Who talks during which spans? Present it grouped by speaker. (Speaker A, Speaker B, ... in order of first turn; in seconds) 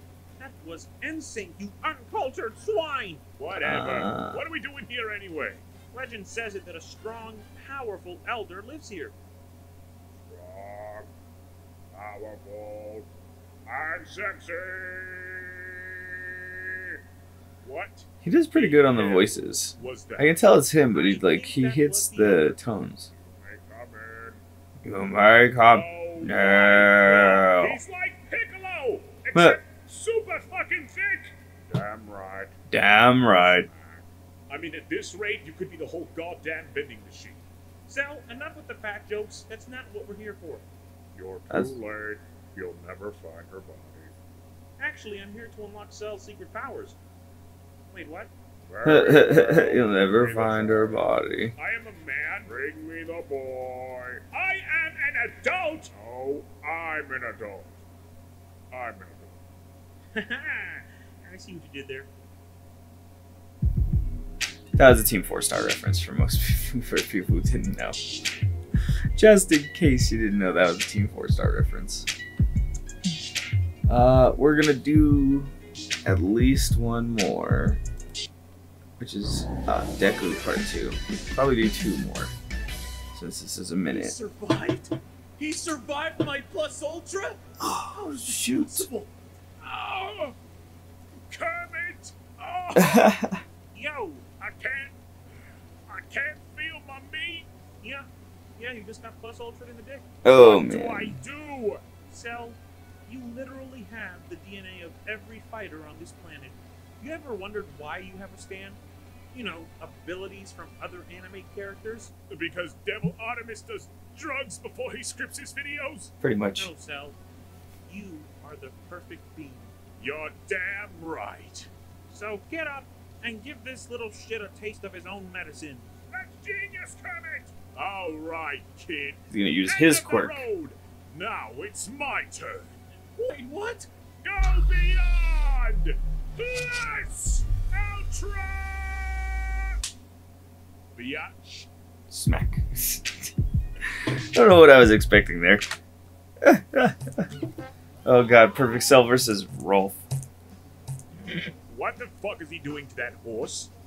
Speaker A: 0.4-3.3, 5.9-9.2, 20.9-22.2, 37.9-40.7, 44.8-46.5, 47.9-48.3, 61.2-62.1, 83.9-87.4, 88.0-89.1, 94.0-94.3, 98.6-100.0, 102.1-102.5, 103.1-108.8, 109.3-112.1, 116.6-116.9, 117.9-119.7, 122.1-125.9, 133.2-133.9
Speaker B: 3.4-5.7, 10.2-11.1, 11.9-13.1, 13.7-16.9, 17.6-20.4, 23.1-24.4, 25.7-32.5, 33.3-37.4, 41.1-44.1, 48.7-57.8, 58.7-59.4, 89.6-90.4, 91.3-93.2, 94.4-95.0, 95.9-97.5, 100.3-101.9, 112.3-116.1, 120.0-121.7, 126.1-132.8, 134.2-139.2, 140.9-141.6, 151.7-153.7
Speaker C: 3.5-4.4, 18.2-23.1, 24.9-27.8, 29.3-29.6, 32.7-33.7, 41.5-41.8, 48.8-51.5, 64.7-68.0, 69.2-72.1, 73.9-75.5, 76.0-77.8, 79.0-82.3, 83.1-84.2, 87.6-88.9, 92.8-93.4, 100.2-101.2, 116.2-116.7, 129.3-130.4, 142.1-143.3, 143.9-145.7, 146.4-147.3, 148.1-150.0